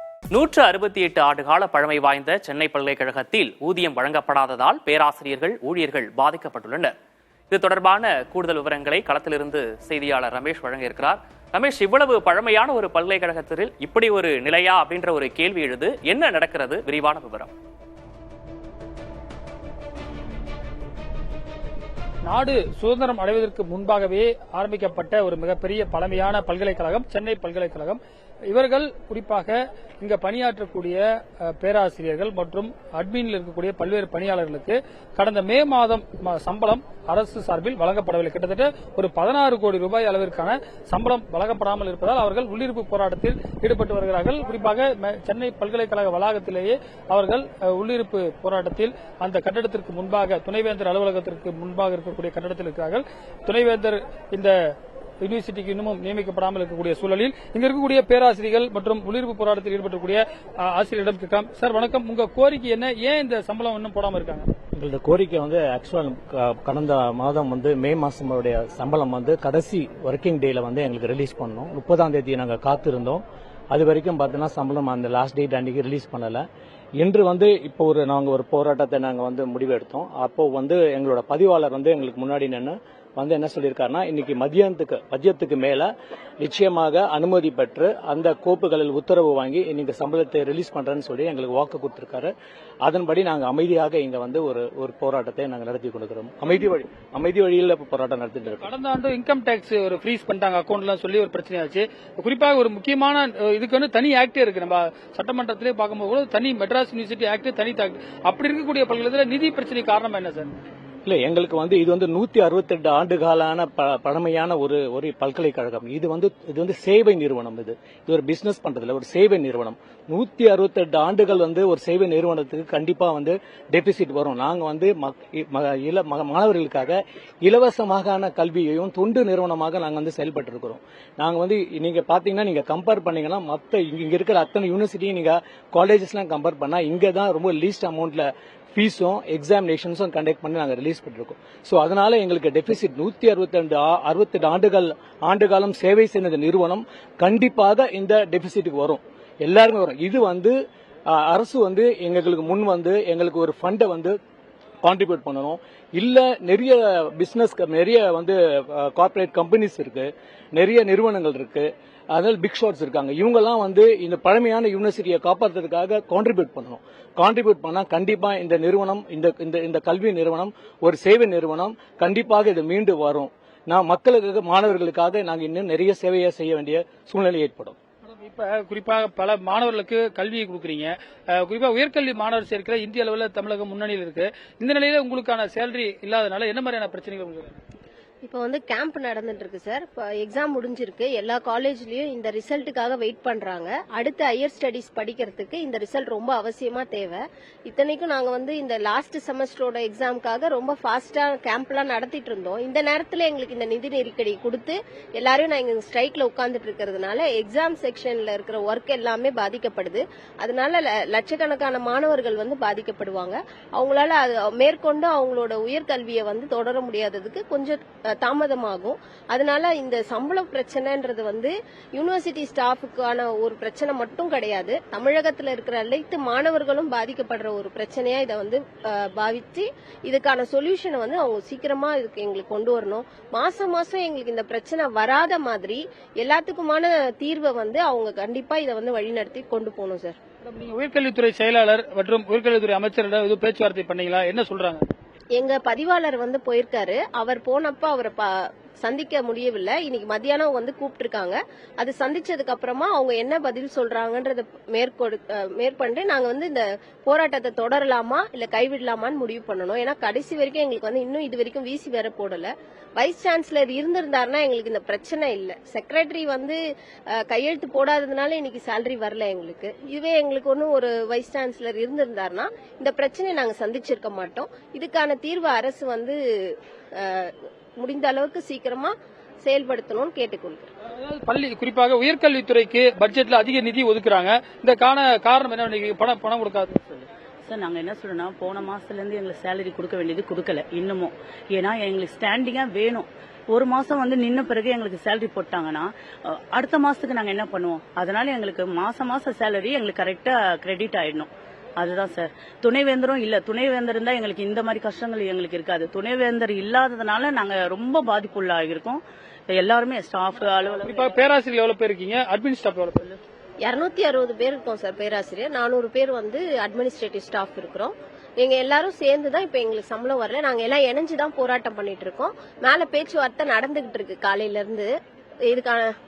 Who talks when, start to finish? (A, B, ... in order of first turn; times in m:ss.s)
0:00.3-0:06.9 A
0:07.5-0:17.5 A
0:22.2-0:28.0 B
0:28.5-0:54.5 B
0:55.2-1:04.5 B
1:04.7-1:16.4 C
1:17.0-1:32.3 C
1:32.8-1:38.6 C
1:38.6-1:50.5 B
1:51.0-2:30.5 C
2:31.1-2:34.1 C
2:34.8-2:57.8 C
2:58.2-3:07.6 B
3:08.2-4:00.2 D
4:00.4-4:04.8 B
4:05.3-4:26.6 D
4:27.1-4:40.7 D
4:40.9-4:46.8 B
4:46.9-5:11.2 E
5:10.8-5:13.1 B
5:13.6-5:24.9 D
5:25.5-5:25.9 D